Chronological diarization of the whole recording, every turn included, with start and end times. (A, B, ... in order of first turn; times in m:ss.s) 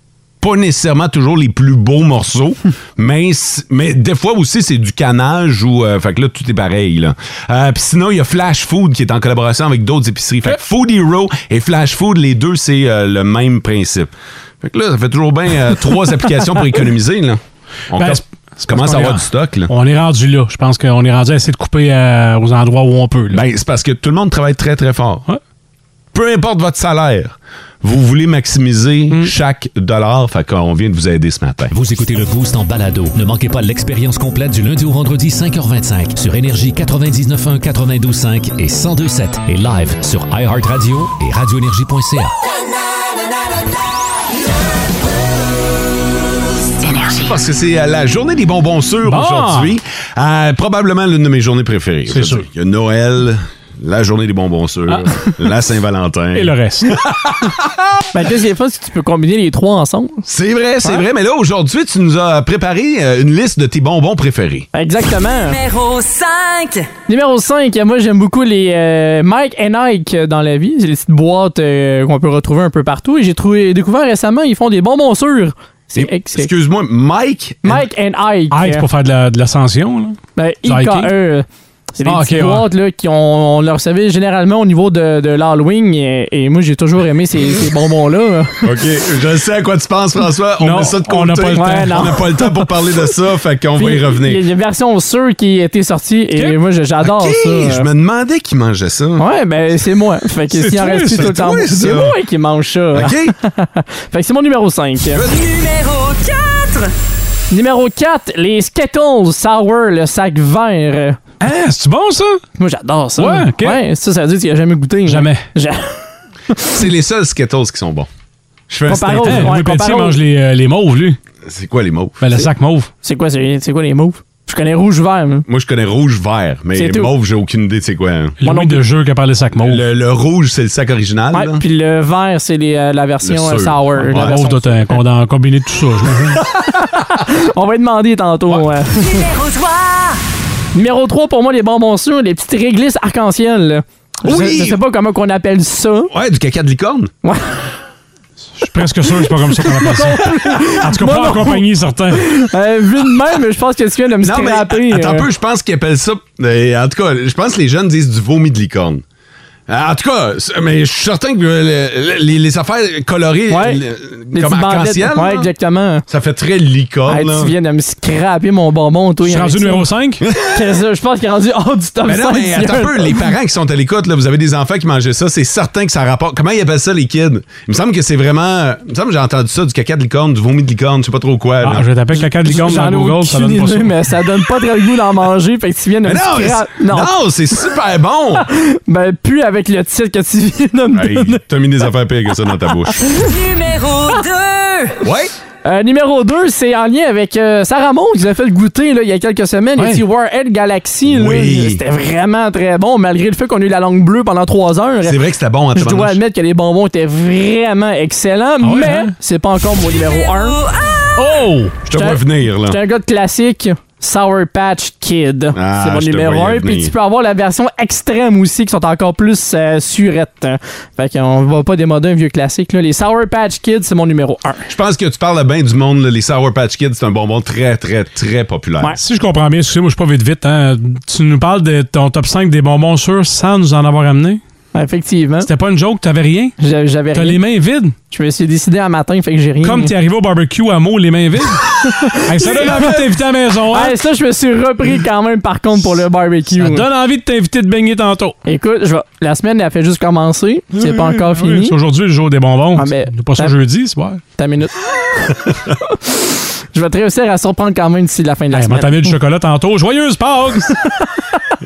0:00.4-0:19.7 A
0:17.9-0:23.4 B
0:23.3-0:25.2 A
0:26.1-0:31.7 A
0:31.7-0:42.3 C
0:47.2-0:58.0 A
0:49.0-0:49.8 B
0:52.1-0:52.5 B
0:54.9-0:55.4 B
0:56.3-0:56.9 B
0:58.1-1:00.3 D
1:00.3-1:04.7 A
1:04.7-1:05.6 D
1:05.4-1:06.9 E
1:07.1-1:16.5 D
1:16.0-1:17.8 A
1:17.6-1:18.9 D
1:18.5-1:21.1 B
1:20.4-1:21.4 D
1:22.0-1:28.6 D
1:22.0-1:22.7 B
1:28.6-1:34.4 A
1:30.6-1:32.2 B
1:31.6-1:32.5 D
1:33.8-1:37.9 D
1:37.0-1:39.3 A
1:39.2-1:45.2 D
1:40.5-1:41.3 B
1:41.1-1:42.2 A
1:42.9-1:43.3 A
1:45.2-1:46.9 E
1:47.5-1:51.2 D
1:51.4-1:52.4 B
1:52.6-1:56.0 D
1:53.2-1:53.8 B
1:55.0-1:55.4 B
1:56.6-1:58.1 A
1:58.7-1:59.6 A
1:58.9-2:00.2 D
1:59.2-2:01.2 B
2:01.4-2:02.4 A
2:02.2-2:02.9 B
2:03.0-2:05.4 D
2:05.5-2:08.4 A
2:06.8-2:07.1 D
2:08.4-2:09.8 B
2:08.4-2:08.8 D
2:09.6-2:11.6 A
2:11.3-2:15.0 D
2:13.2-2:14.4 A
2:14.0-2:16.4 B
2:16.4-2:19.3 D
2:18.9-2:20.2 E
2:20.7-2:26.1 D
2:24.2-2:24.8 A
2:26.1-2:27.1 A
2:27.2-2:27.6 D
2:28.6-2:32.5 B
2:29.5-2:35.3 D
2:34.2-2:39.0 A
2:39.7-2:45.5 A
2:43.5-2:43.8 D
2:44.3-2:46.0 D
2:46.1-2:47.5 A
2:47.1-2:49.9 D
2:49.2-2:50.2 B
2:50.2-2:50.6 A
2:50.4-2:53.3 D
2:52.0-3:01.9 A
3:01.6-3:04.0 B
3:02.1-3:07.1 D
3:06.0-3:08.5 A
3:08.4-3:11.4 D
3:10.9-3:13.0 A
3:12.7-3:13.3 D
3:13.1-3:15.0 E
3:15.0-3:15.3 A
3:15.6-3:25.2 D
3:21.0-3:21.8 A
3:25.0-3:26.2 A
3:25.7-3:30.6 D
3:28.6-3:29.1 B
3:30.1-3:31.1 E
3:31.2-3:31.8 B
3:31.8-3:32.8 A
3:31.9-3:44.7 D
3:35.5-3:36.9 A
3:44.7-3:49.0 A
3:49.0-3:54.4 B
3:54.7-3:55.5 D
3:55.4-3:56.6 B
3:56.6-3:57.4 D
3:57.1-3:58.0 B
3:58.1-3:59.9 D
3:59.6-4:01.7 B
4:01.8-4:02.9 D
4:02.2-4:04.0 B
4:02.4-4:03.1 A
4:03.7-4:06.9 D
4:06.5-4:08.4 B
4:08.4-4:11.7 D
4:10.7-4:14.2 B
4:12.7-4:13.5 D
4:14.4-4:19.1 D
4:18.5-4:21.0 B